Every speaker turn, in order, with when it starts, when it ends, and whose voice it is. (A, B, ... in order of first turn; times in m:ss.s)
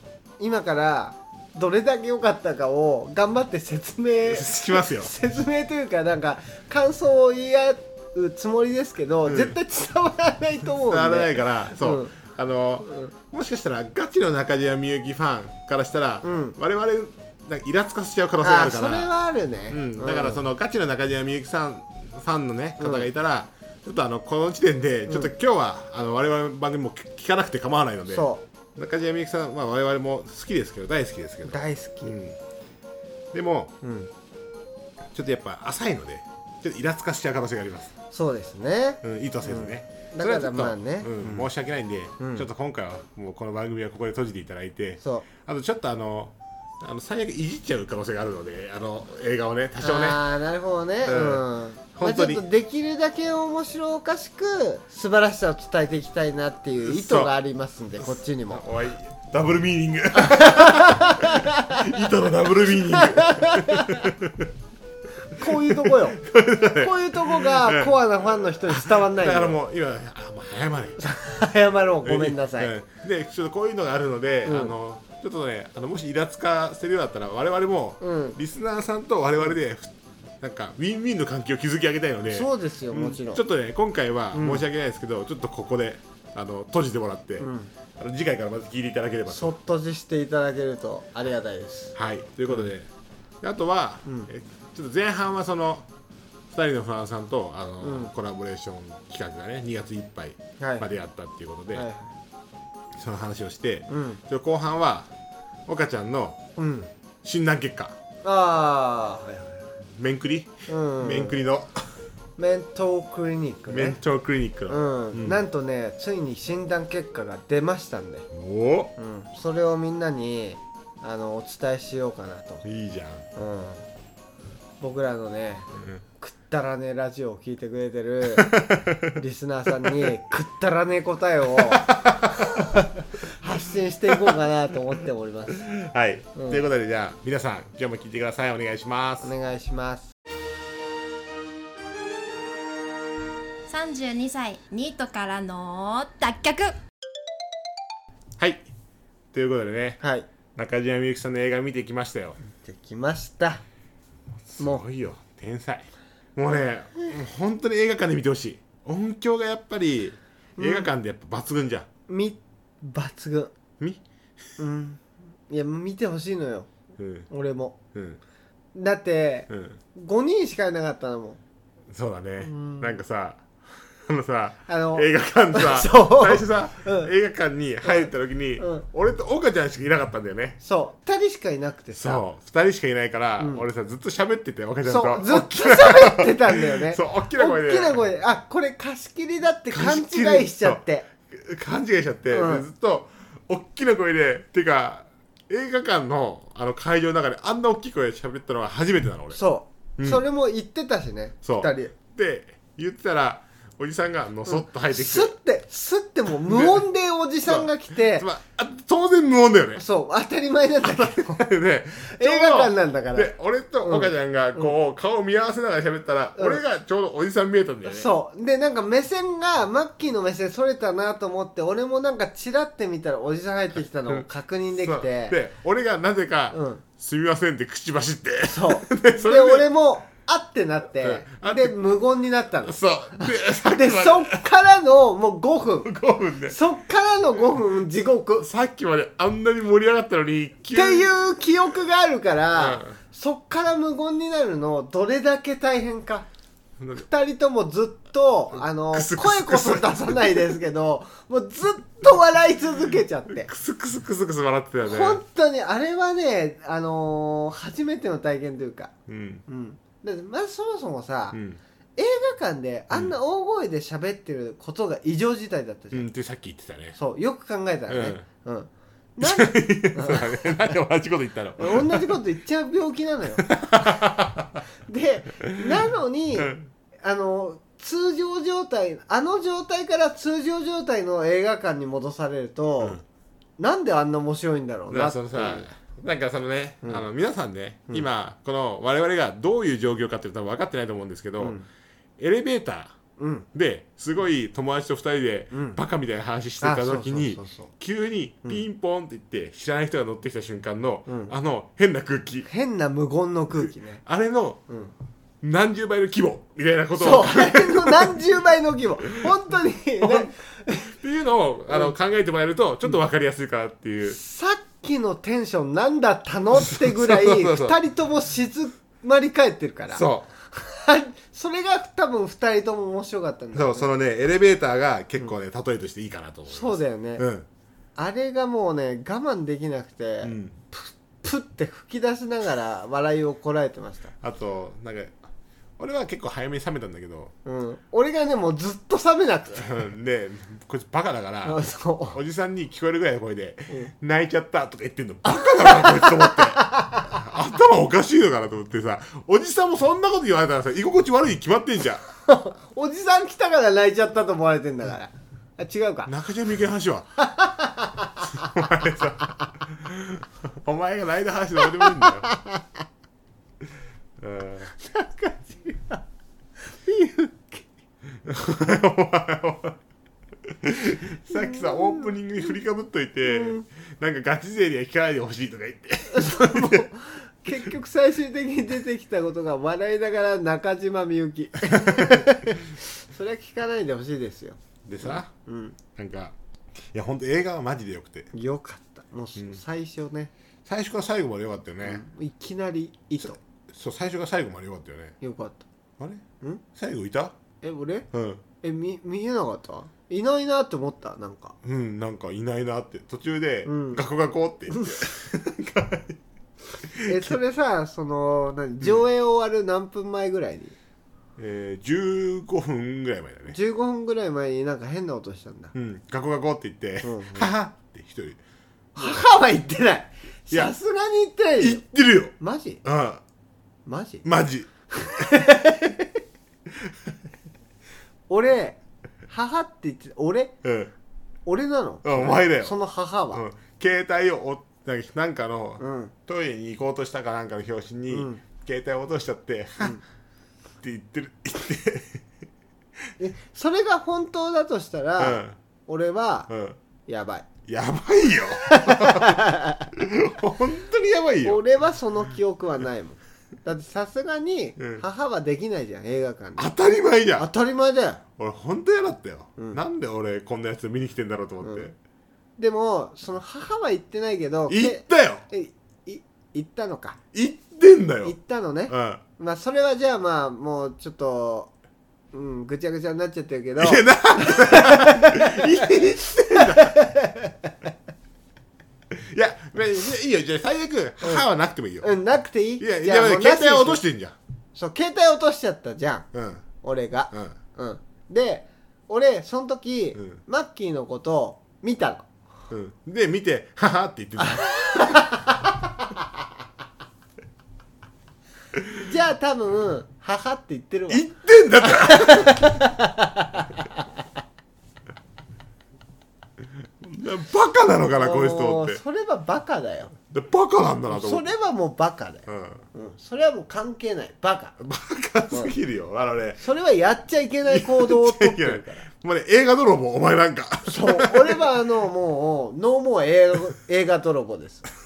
0:00.4-0:12.1 A
0:04.2-0:05.1 B
0:09.2-0:09.6 B
0:10.8-0:19.1 B
0:12.8-0:13.1 A
0:16.2-0:16.6 A
0:18.4-0:20.4 A
0:19.7-0:32.4 B
0:22.8-0:23.1 A
0:25.1-0:25.3 A
0:28.1-0:28.4 A
0:31.4-0:32.1 A
0:33.3-0:33.7 B
0:33.8-0:34.1 A
0:35.1-0:37.9 B
0:38.1-0:41.5 A
0:39.0-0:50.2 B
0:42.2-0:42.5 A
0:45.0-0:45.3 A
0:49.8-0:58.6 A
0:51.0-0:52.4 B
0:56.8-0:57.3 B
0:58.0-1:04.5 B
1:00.1-1:02.1 A
1:02.6-1:04.1 A
1:05.3-1:06.2 A
1:05.4-1:08.0 B
1:06.7-1:09.6 A
1:08.6-1:11.4 B
1:11.0-1:12.7 A
1:12.0-1:29.5 B
1:14.4-1:14.7 A
1:18.0-1:18.4 A
1:22.3-1:23.4 A
1:24.3-1:24.6 A
1:27.4-1:27.7 A
1:29.3-1:32.0 A
1:32.0-1:32.9 B
1:33.4-1:35.9 B
1:36.5-1:41.9 B
1:37.8-1:38.1 A
1:40.6-1:40.9 A
1:41.7-1:42.1 A
1:42.9-1:45.1 B
1:43.9-1:44.2 A
1:45.7-1:46.4 B
1:46.6-1:46.9 A
1:47.2-1:48.0 B
1:48.2-1:49.7 A
1:50.0-1:51.9 B
1:50.7-1:51.4 A
1:52.4-1:54.0 A
1:53.7-1:55.4 B
1:54.7-1:58.3 A
1:58.3-1:58.9 B
1:59.0-2:02.6 A
2:02.6-2:03.2 B
2:03.3-2:03.8 A
2:04.8-2:12.0 A
2:08.3-2:09.1 B
2:09.8-2:10.1 B
2:11.5-2:12.8 B
2:12.8-2:15.7 A
2:14.1-2:14.4 B
2:15.5-2:19.3 B
2:16.4-2:16.6 A
2:19.2-2:20.1 A
2:23.7-2:26.7 C
2:28.4-2:28.6 B
2:29.3-2:30.0 B
2:30.0-2:30.3 A
2:30.5-2:32.4 B
2:32.5-2:33.6 A
2:34.5-2:41.9 B
2:40.6-2:40.9 A
2:42.1-2:43.5 A
2:44.6-2:46.7 A
2:47.0-2:47.3 B
2:47.3-2:47.8 A
2:47.9-2:48.2 B
2:48.7-2:51.4 A
2:49.5-2:49.8 B
2:51.9-2:53.5 B
2:52.4-2:53.0 A
2:54.0-3:00.6 B
2:54.7-2:57.1 A
2:57.8-2:58.8 A
3:00.6-3:02.2 A
3:01.9-3:08.0 B
3:03.4-3:03.6 A
3:04.8-3:11.0 A
3:09.7-3:19.4 B
3:12.3-3:12.6 A
3:19.3-3:21.9 A
3:21.4-3:25.3 B
3:24.4-3:28.2 A
3:26.4-3:26.9 B
3:27.4-3:29.8 B
3:29.8-3:31.5 A
3:30.8-3:38.1 B
3:32.0-3:33.3 A
3:33.8-3:34.7 A
3:37.8-3:45.3 A
3:44.1-3:49.7 B
3:46.5-3:46.8 A
3:48.5-3:55.9 A
3:51.0-3:51.8 B
3:52.6-3:54.4 B
3:55.8-3:56.6 B
3:56.4-3:58.5 A
3:58.4-4:01.1 B
4:00.7-4:06.2 A
4:02.5-4:02.9 B
4:06.9-4:13.5 A
4:08.9-4:10.6 B
4:13.3-4:15.2 B
4:14.8-4:18.9 A
4:19.1-4:19.4 B
4:19.5-4:21.4 A
4:21.3-4:21.6 B
4:22.0-4:26.1 A
4:25.9-4:27.0 B
4:26.9-4:30.8 A
4:27.9-4:28.2 B
4:29.2-4:32.2 B
4:31.6-4:33.9 A
4:33.4-4:34.6 B
4:34.9-4:43.0 A
4:36.4-4:36.7 B
4:43.6-4:45.7 A
4:44.9-4:51.6 B
4:46.8-4:47.1 A
4:51.4-4:51.7 A
4:52.2-4:53.0 B
4:53.2-4:53.5 A
4:53.5-5:02.5 B
4:55.5-4:55.8 A
4:56.6-4:57.7 A
5:01.1-5:01.3 A
5:02.5-5:04.0 A
5:03.5-5:04.6 B
5:04.7-5:04.9 A
5:05.4-5:08.2 B
5:07.0-5:10.9 A
5:10.0-5:10.3 B
5:10.9-5:14.2 B
5:14.1-5:23.9 A
5:16.6-5:17.8 B
5:19.9-5:20.3 B
5:23.5-5:27.5 B
5:26.5-5:27.2 A
5:28.0-5:34.1 A
5:30.2-5:30.6 B
5:34.2-5:35.2 B
5:35.8-5:37.3 B
5:37.4-5:39.7 A
5:39.6-5:52.0 B
5:41.4-5:42.2 A
5:45.2-5:47.2 A
5:52.2-5:56.1 A
5:56.0-5:57.2 B
5:57.2-5:58.6 A
5:58.2-6:02.3 B
6:01.8-6:02.6 A
6:04.2-6:04.7 B
6:04.8-6:06.0 A
6:06.7-6:07.6 A
6:08.2-6:09.8 B
6:10.4-6:16.9 B
6:11.5-6:12.0 A
6:13.2-6:13.7 A
6:16.1-6:25.8 A
6:21.7-6:22.4 B
6:24.8-6:25.3 B
6:25.9-6:26.3 B
6:26.9-6:28.3 B
6:28.3-6:30.3 A
6:30.6-6:32.0 B
6:31.8-6:33.4 A
6:33.2-6:35.2 B
6:35.2-6:35.6 A
6:36.0-6:37.3 B
6:37.6-6:38.1 A
6:38.1-6:38.4 B
6:38.6-6:41.6 A
6:41.6-6:46.2 B
6:43.6-6:44.0 A
6:44.7-6:45.1 A
6:46.8-6:47.4 B
6:47.0-6:50.8 A
6:51.4-6:53.6 B
6:53.5-6:55.7 A
6:55.7-6:58.4 B
6:57.0-6:57.5 A
6:59.0-7:01.8 A
6:59.0-6:59.2 B
7:01.6-7:03.2 B
7:02.4-7:02.8 A
7:03.8-7:04.2 A
7:04.2-7:04.7 B
7:04.9-7:06.2 A
7:08.3-7:10.5 A
7:10.6-7:10.9 B
7:11.4-7:13.4 A
7:12.0-7:12.8 B
7:13.3-7:20.0 B
7:15.8-7:16.1 A
7:18.1-7:18.4 A
7:20.8-7:22.2 B
7:23.2-7:26.5 A
7:25.2-7:25.6 B
7:26.5-7:26.8 B
7:27.1-7:27.5 A
7:27.6-7:31.6 B
7:28.6-7:29.9 A
7:31.4-7:36.7 A
7:34.8-7:35.0 B
7:36.6-7:37.5 B
7:37.4-7:38.2 A
7:38.4-7:41.9 B
7:39.6-7:39.8 A
7:41.6-7:41.9 A
7:42.6-7:47.2 A
7:44.7-7:45.4 B
7:47.3-7:48.4 B
7:48.2-7:51.7 A
7:48.9-7:49.2 B
7:52.3-7:57.9 A
7:53.8-7:57.0 B
7:59.1-8:02.1 B
8:02.0-8:04.0 A
8:02.8-8:04.4 B
8:04.7-8:06.3 A
8:06.3-8:06.6 B
8:06.8-8:12.2 A
8:12.7-8:15.2 B
8:14.4-8:15.9 A
8:19.0-8:21.2 A
8:21.1-8:22.8 B
8:21.8-8:24.0 A
8:27.0-8:29.0 B
8:28.2-8:30.1 A
8:30.3-8:31.5 B
8:31.1-8:34.8 A
8:32.5-8:32.8 B
8:34.8-8:36.6 B
8:36.6-8:39.0 A
8:37.7-8:41.6 B
8:40.8-8:44.9 A